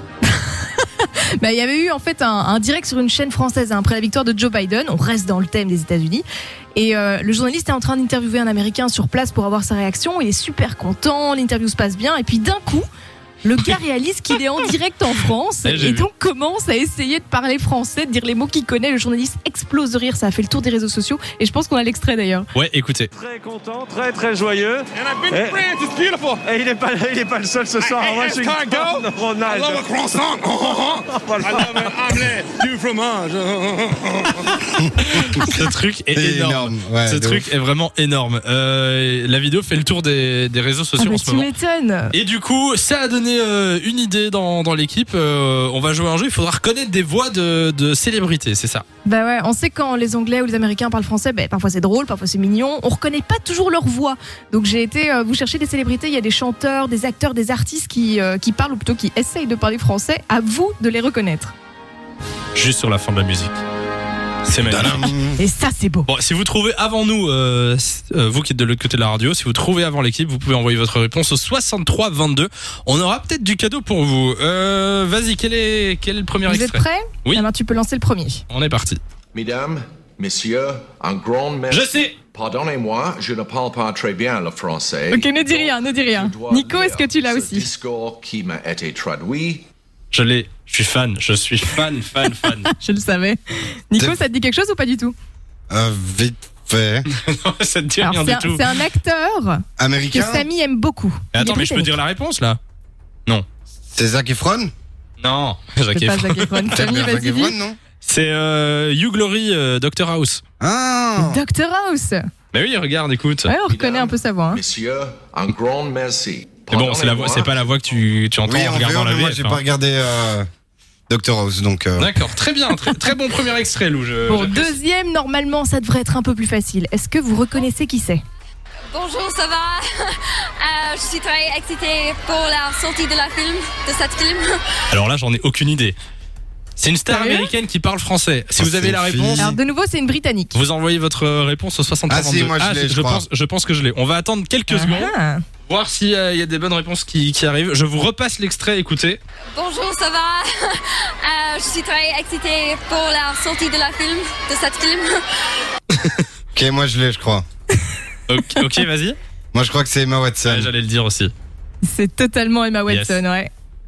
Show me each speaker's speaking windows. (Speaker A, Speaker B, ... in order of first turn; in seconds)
Speaker A: 0.4-12.9, 13.4-22.5, 41.0-42.1, 49.0-61.5, 65.4-66.1, 76.5-78.4, 85.1-87.7, 92.4-95.1, 98.0-102.0, 105.9-107.6, 111.2-112.2, 113.5-114.6, 124.3-128.2, 137.1-137.5, 139.4-140.6, 144.7-145.4, 161.8-163.5
Speaker B: 15.6-16.1, 22.6-23.1, 35.2-41.5, 42.1-48.8, 62.5-63.6, 64.4-65.2, 66.1-77.4, 78.5-79.0, 81.7-82.2, 90.1-92.7, 97.1-98.7, 101.3-102.6, 105.2-106.8, 108.0-110.4, 112.5-113.5, 116.7-119.6, 122.0-124.8, 134.9-136.0, 136.8-139.6, 140.5-145.1, 145.7-149.2, 155.9-156.2, 158.3-159.2, 160.5-161.3, 162.9-163.2
Speaker C: 23.1-25.7, 26.4-29.9, 30.6-32.0
Speaker D: 24.9-26.5, 27.9-34.5
Speaker E: 36.1-37.5, 64.7-65.4, 95.7-97.1, 99.8-100.5, 103.9-104.7, 106.7-107.8, 110.6-111.4, 118.5-120.5, 121.1-122.1, 138.6-139.6, 142.1-143.2, 156.5-157.4, 159.5-160.7
Speaker F: 79.3-89.7, 113.7-117.8
Speaker G: 128.9-134.6, 149.5-155.6